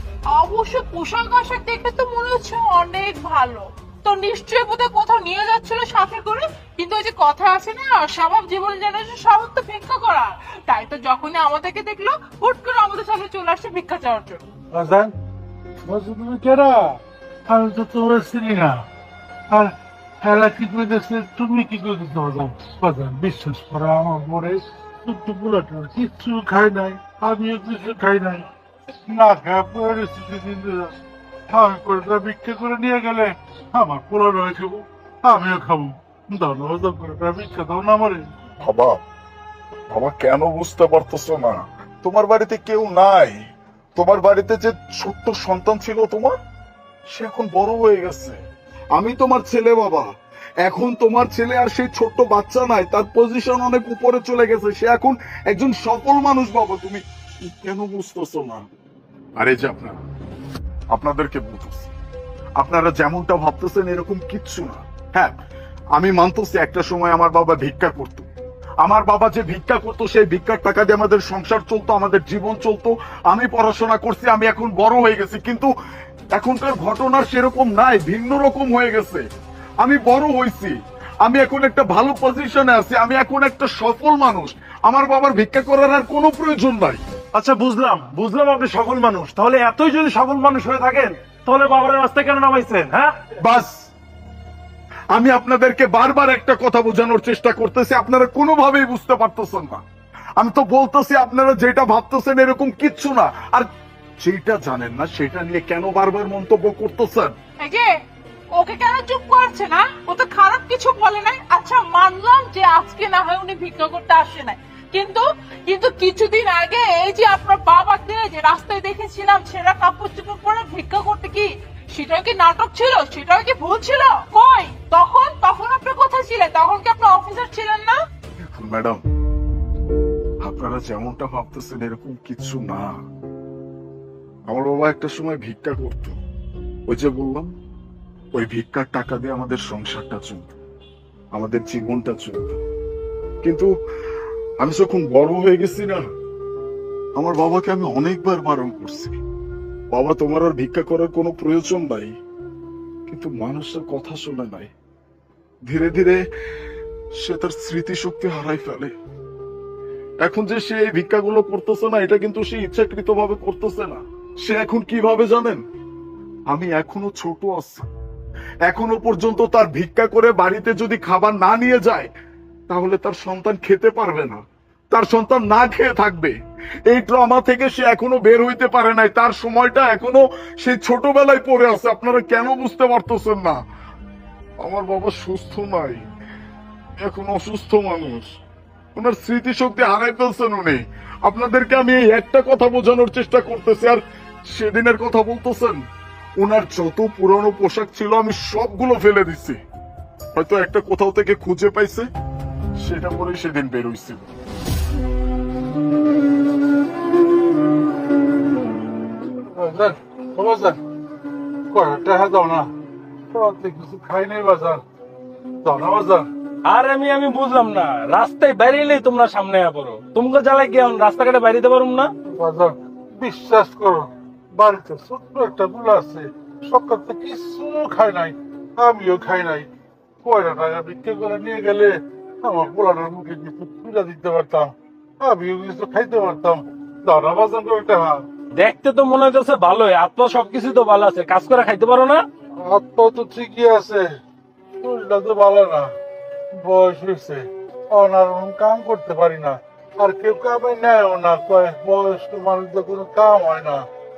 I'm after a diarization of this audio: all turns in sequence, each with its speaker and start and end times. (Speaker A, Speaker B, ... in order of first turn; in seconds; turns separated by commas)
Speaker A: 0.3-14.4, Speaker B: 14.7-15.1, Speaker B: 15.8-18.9, Speaker B: 19.5-28.5, Speaker B: 29.1-31.0, Speaker B: 31.5-38.3, Speaker C: 38.6-39.0, Speaker C: 39.9-43.4, Speaker C: 44.0-46.3, Speaker C: 47.1-48.4, Speaker C: 48.9-50.1, Speaker C: 50.6-58.6, Speaker C: 59.4-60.0, Speaker C: 60.9-61.9, Speaker C: 62.6-65.3, Speaker C: 65.9-68.3, Speaker C: 68.8-75.7, Speaker C: 76.3-79.2, Speaker C: 79.8-87.0, Speaker D: 87.3-93.1, Speaker C: 93.4-93.9, Speaker C: 95.1-99.8, Speaker C: 100.4-103.7, Speaker C: 104.2-107.3, Speaker A: 107.6-107.9, Speaker A: 108.5-128.0, Speaker C: 128.4-129.0, Speaker C: 130.4-133.0, Speaker C: 134.5-136.2, Speaker C: 136.9-137.5, Speaker C: 138.3-140.6, Speaker C: 141.3-142.6, Speaker C: 143.4-143.7, Speaker C: 144.6-146.1, Speaker C: 147.2-149.2, Speaker C: 149.9-152.1, Speaker C: 153.1-154.7, Speaker C: 155.7-156.2, Speaker C: 157.2-158.9, Speaker C: 160.2-165.6, Speaker C: 166.5-167.8, Speaker C: 168.7-172.1, Speaker C: 172.7-174.4, Speaker C: 174.9-176.3, Speaker C: 176.9-183.6, Speaker C: 184.6-186.0, Speaker C: 187.0-188.3, Speaker C: 188.9-195.8, Speaker C: 196.4-199.6, Speaker C: 200.3-202.1, Speaker C: 202.8-204.3, Speaker B: 209.5-210.8, Speaker B: 211.7-212.7, Speaker B: 213.3-214.8, Speaker B: 215.6-216.3, Speaker E: 216.6-222.1, Speaker B: 222.3-229.7, Speaker B: 230.2-238.2, Speaker E: 238.6-242.2, Speaker B: 242.6-244.2, Speaker B: 244.8-245.9, Speaker B: 246.5-253.9